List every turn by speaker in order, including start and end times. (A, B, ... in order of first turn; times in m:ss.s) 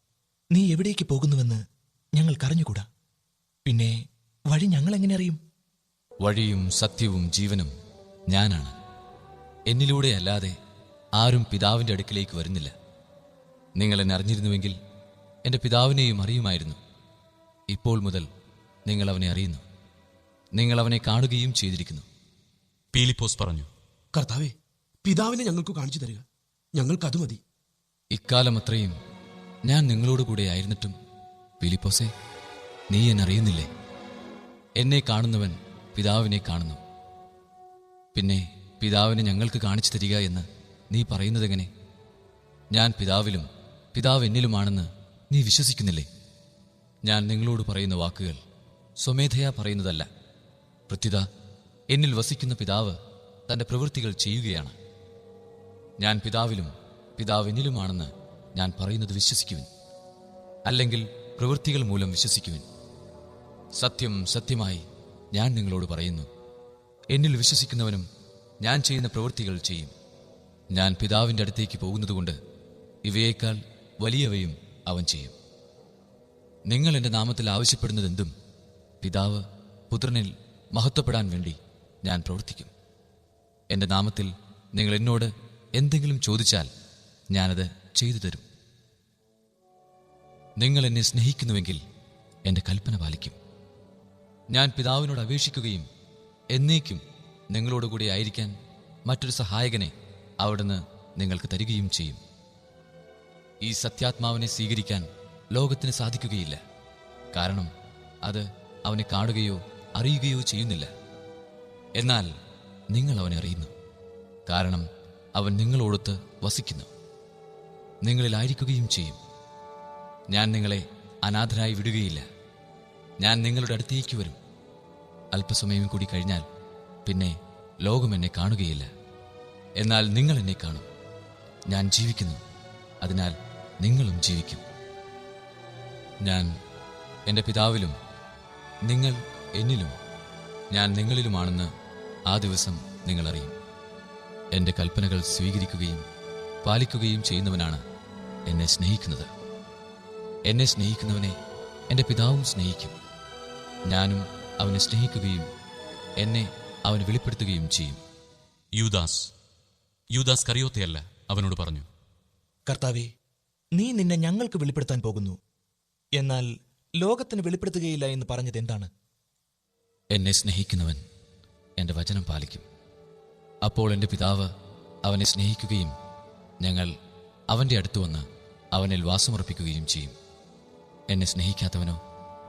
0:00.5-0:01.6 A
0:02.2-0:02.8 A
0:03.7-0:03.9 A
0:04.5-0:05.4 A
0:06.2-0:07.7 B
0:08.3-0:08.8 B
0:09.7-0:10.6 B
0:11.2-0:12.7 B
0:13.8-0:14.8 B
0:15.4-0:16.8 B
0:17.7-0:18.3 B
0:18.8-0:19.6 B
0:20.5-0:22.0 B
0:22.9-0:23.7 C
0:24.1-0:26.2 D
0:26.7-0:27.4 D
0:28.1-0:28.9 B
0:29.6-0:30.9 B
0:31.6-0:32.1 B
0:32.9-0:33.7 B
0:34.8-0:36.8 B
0:38.1-0:41.7 B
0:42.7-0:46.1 B
0:47.0-0:48.4 B
0:49.0-0:50.1 B
0:50.9-0:51.3 B
0:51.9-0:54.8 B
0:56.0-0:59.7 B
1:00.6-1:02.6 B
1:03.7-1:06.3 B
1:07.1-1:08.0 B
1:08.6-1:09.9 B
1:10.7-1:12.4 B
1:13.0-1:15.3 B
1:16.7-1:18.3 B
1:19.0-1:22.7 B
1:23.7-1:26.7 B
1:27.3-1:28.4 B
1:30.6-1:31.8 B
1:32.4-1:33.4 B
1:34.5-1:35.9 B
1:36.5-1:38.5 B
1:39.0-1:42.2 B
1:43.6-1:46.6 B
1:47.3-1:47.7 B
1:48.2-1:50.9 B
1:52.0-1:52.3 B
1:52.9-1:53.7 B
1:54.5-1:56.9 B
1:58.0-1:59.2 B
2:00.3-2:02.3 B
2:03.2-2:04.4 B
2:05.3-2:06.4 B
2:07.0-2:08.9 B
2:09.8-2:10.8 B
2:11.7-2:12.4 B
2:13.0-2:14.6 B
2:16.2-2:16.5 B
2:17.3-2:18.0 B
2:18.8-2:20.0 B
2:20.7-2:21.7 B
2:22.3-2:23.5 B
2:24.5-2:26.0 B
2:26.6-2:27.8 B
2:28.5-2:29.3 B
2:30.5-2:31.3 B
2:31.9-2:32.9 B
2:33.9-2:35.5 B
2:36.2-2:38.0 B
2:38.7-2:39.3 C
2:40.1-2:41.8 C
2:42.7-2:43.1 A
2:43.8-2:45.3 A
2:46.2-2:46.5 A
2:47.0-2:48.9 A
2:50.1-2:51.0 B
2:51.8-2:52.6 B
2:53.6-2:54.5 B
2:55.0-2:55.9 B
2:56.6-2:56.9 B
2:57.5-3:00.1 B
3:01.1-3:02.0 B